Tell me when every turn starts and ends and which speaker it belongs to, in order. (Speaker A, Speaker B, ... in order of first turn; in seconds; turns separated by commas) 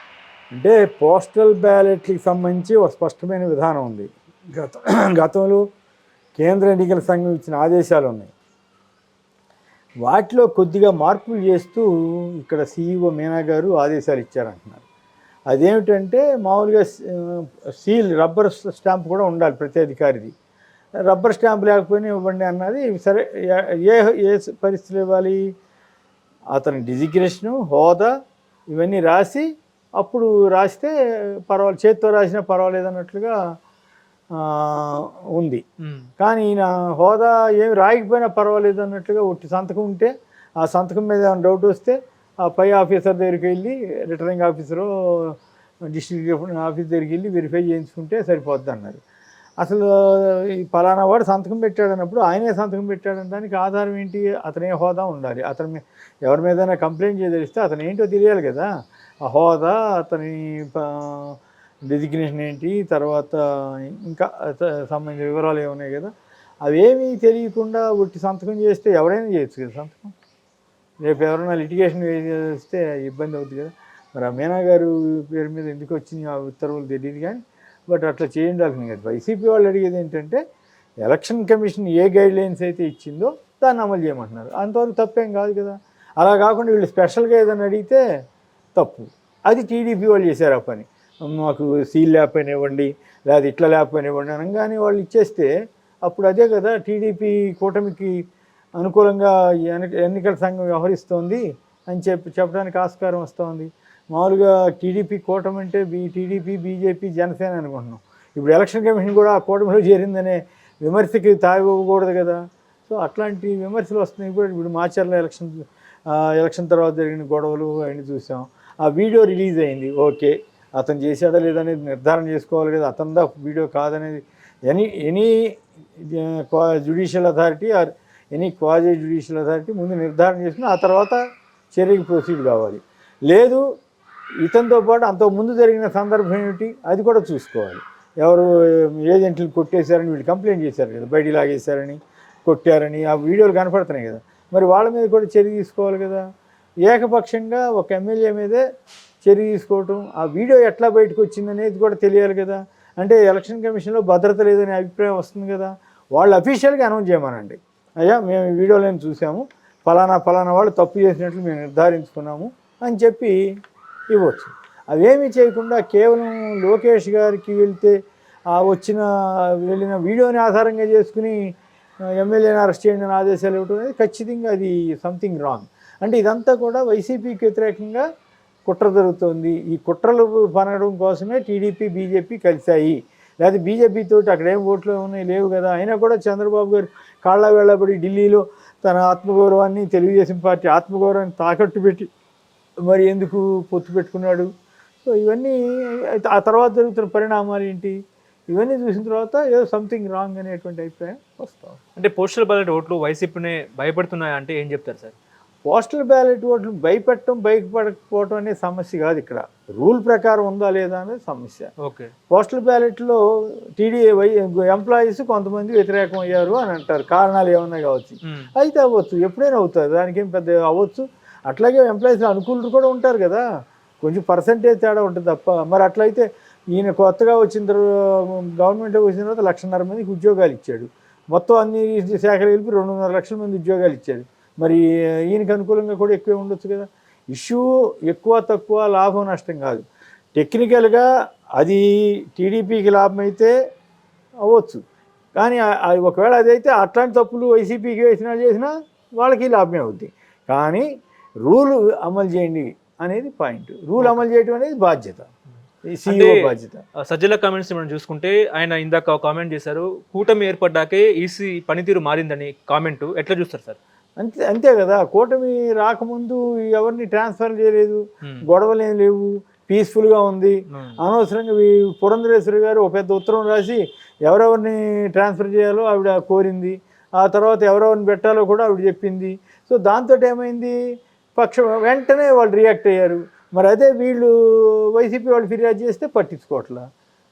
Speaker A: 0.5-5.6, Speaker A: 6.3-8.3, Speaker A: 10.0-14.8, Speaker A: 15.5-20.3, Speaker A: 21.0-25.5, Speaker A: 26.5-28.1, Speaker A: 28.7-29.4, Speaker A: 30.0-30.9, Speaker A: 31.4-33.4, Speaker A: 34.3-35.6, Speaker A: 36.2-49.0, Speaker A: 49.6-58.7, Speaker A: 59.2-66.1, Speaker A: 66.6-70.1, Speaker A: 71.0-80.4, Speaker A: 81.0-88.0, Speaker A: 88.7-95.5, Speaker A: 96.0-98.2, Speaker A: 98.8-131.2, Speaker A: 131.7-133.7, Speaker A: 134.4-146.2, Speaker A: 146.8-148.6, Speaker A: 149.2-163.3, Speaker A: 164.1-167.9, Speaker A: 168.5-178.1, Speaker A: 178.7-192.1, Speaker A: 192.8-194.5, Speaker A: 195.0-198.0, Speaker A: 198.5-201.8, Speaker B: 202.0-205.1, Speaker A: 205.6-211.7, Speaker B: 211.8-212.1, Speaker A: 212.3-223.4, Speaker A: 224.0-239.8, Speaker A: 240.3-243.5, Speaker A: 244.4-244.8, Speaker A: 245.3-250.9, Speaker A: 251.4-255.3, Speaker B: 254.0-254.2, Speaker A: 255.8-256.8, Speaker B: 256.1-256.5, Speaker B: 257.0-263.8, Speaker A: 264.2-280.8, Speaker B: 270.7-271.0, Speaker A: 281.4-286.9